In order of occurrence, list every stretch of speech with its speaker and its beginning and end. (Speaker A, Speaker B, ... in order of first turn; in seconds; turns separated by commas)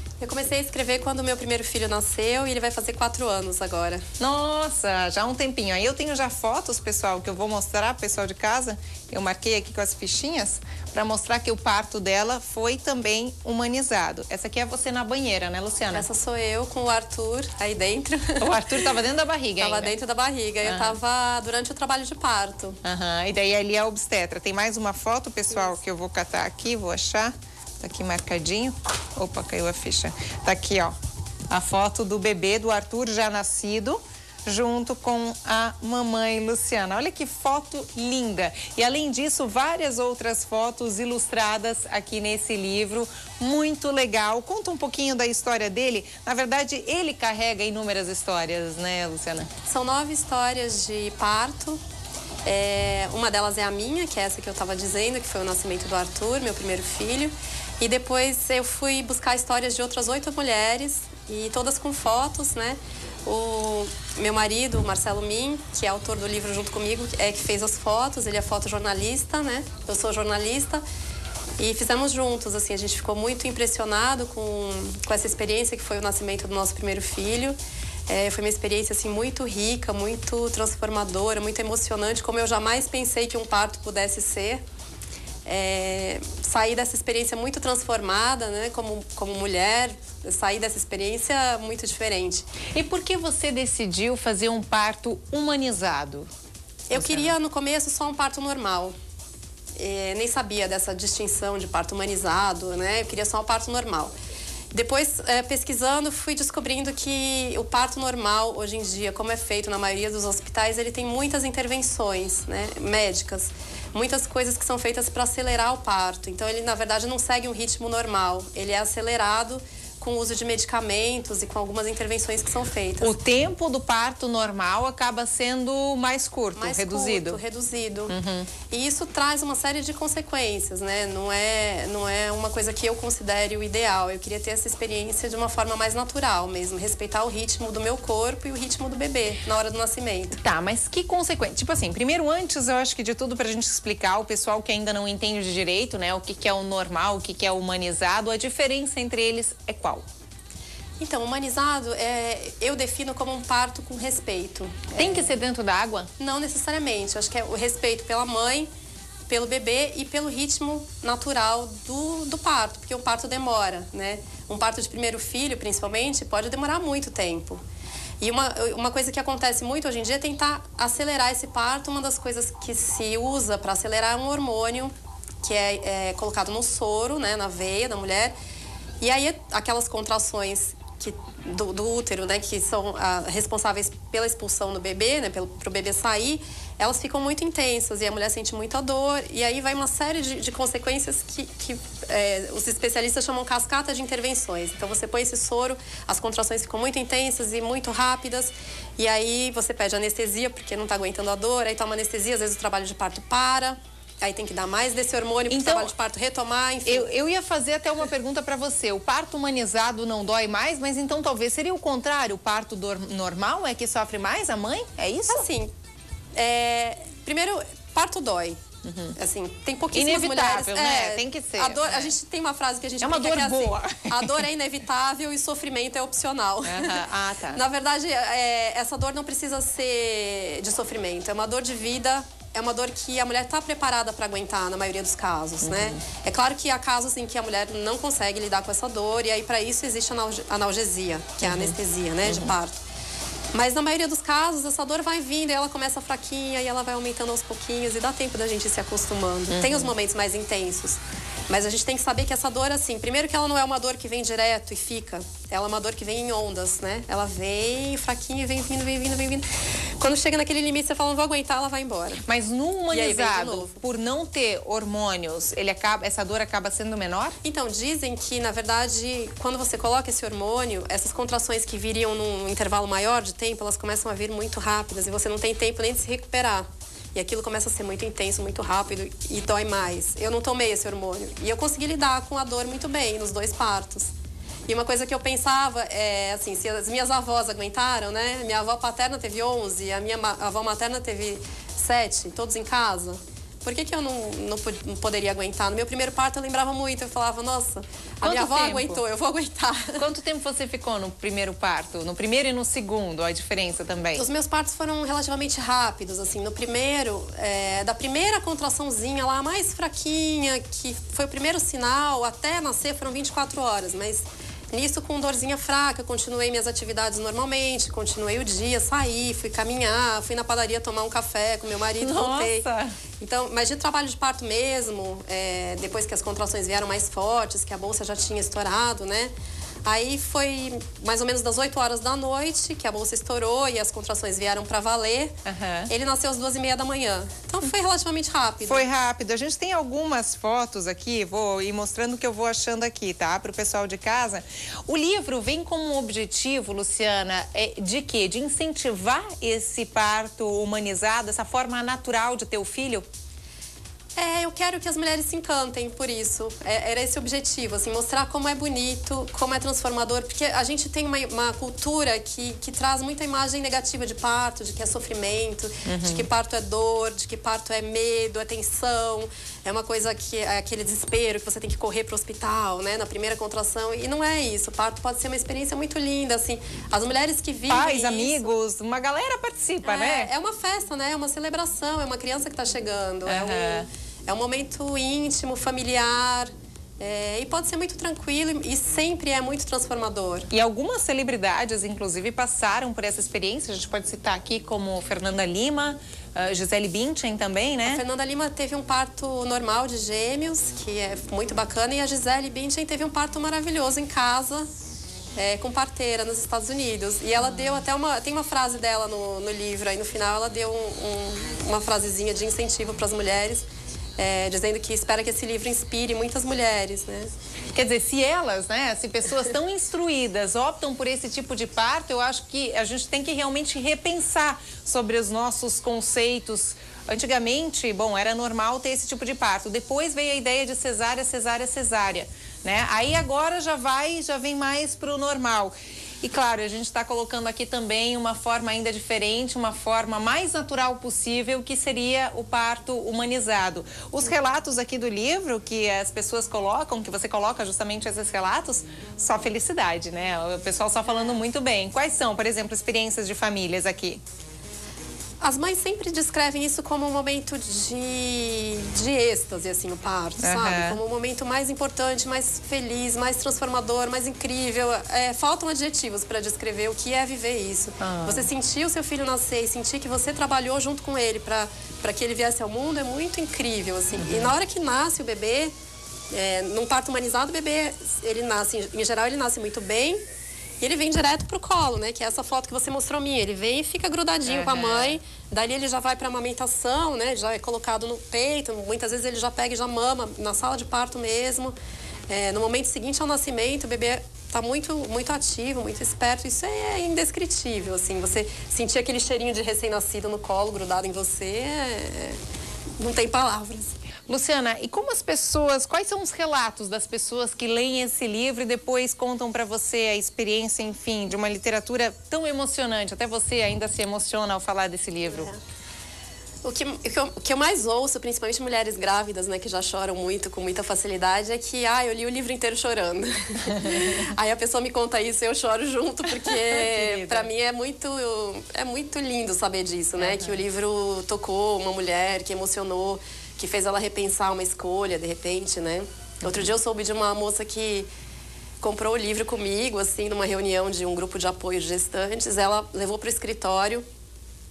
Speaker A: 0.2-4.0, Speaker B: 4.2-16.1, Speaker A: 15.9-18.9, Speaker B: 18.4-19.9, Speaker A: 19.6-22.8, Speaker B: 20.6-21.0, Speaker B: 22.8-30.9, Speaker B: 31.5-49.5, Speaker A: 49.7-51.8, Speaker A: 52.5-70.8, Speaker A: 71.6-77.6, Speaker A: 78.1-84.6, Speaker A: 85.5-92.5, Speaker B: 92.8-96.3, Speaker A: 96.9-98.9, Speaker B: 96.9-97.3, Speaker A: 99.8-104.1, Speaker A: 104.7-123.1, Speaker B: 123.0-127.4, Speaker A: 126.6-128.2, Speaker B: 128.1-128.5, Speaker A: 128.7-140.4, Speaker B: 140.3-150.1, Speaker A: 151.0-155.3, Speaker B: 154.9-156.1, Speaker A: 156.2-158.7, Speaker A: 159.3-167.6, Speaker A: 168.2-178.3, Speaker A: 179.0-207.1, Speaker B: 205.5-205.9, Speaker B: 206.9-215.4, Speaker A: 215.3-215.7, Speaker A: 216.4-218.6, Speaker B: 218.8-219.2, Speaker A: 219.2-242.8, Speaker B: 219.9-222.2, Speaker B: 223.0-224.4, Speaker B: 226.6-227.6, Speaker B: 235.6-236.0, Speaker B: 241.4-241.8, Speaker B: 242.3-242.5, Speaker A: 243.5-259.5, Speaker B: 249.5-249.9, Speaker A: 260.0-262.2, Speaker B: 262.2-267.4, Speaker A: 262.9-263.8, Speaker A: 267.4-284.1, Speaker A: 284.7-300.0, Speaker B: 298.2-299.0, Speaker B: 300.0-304.3, Speaker A: 304.1-322.6, Speaker B: 322.0-322.9, Speaker A: 323.2-329.3, Speaker A: 329.9-335.4, Speaker B: 335.4-335.9, Speaker A: 335.9-338.9, Speaker B: 338.7-353.1, Speaker A: 354.2-378.5, Speaker B: 365.9-366.3, Speaker B: 377.7-380.3, Speaker A: 379.8-390.5, Speaker B: 383.3-383.9, Speaker B: 390.5-398.0, Speaker A: 397.8-404.7, Speaker A: 405.4-413.7, Speaker B: 407.4-407.8, Speaker A: 414.2-417.3, Speaker B: 417.7-454.2, Speaker A: 455.4-475.7, Speaker B: 460.4-461.0, Speaker B: 468.0-468.5, Speaker B: 474.2-474.5, Speaker A: 476.3-480.2, Speaker A: 480.8-491.7, Speaker B: 484.5-485.2, Speaker A: 492.3-502.4, Speaker A: 503.0-503.9, Speaker B: 504.3-515.5, Speaker A: 515.2-515.6, Speaker A: 516.6-538.1, Speaker B: 526.4-527.5, Speaker B: 530.2-530.6, Speaker B: 536.4-536.7, Speaker A: 538.8-544.0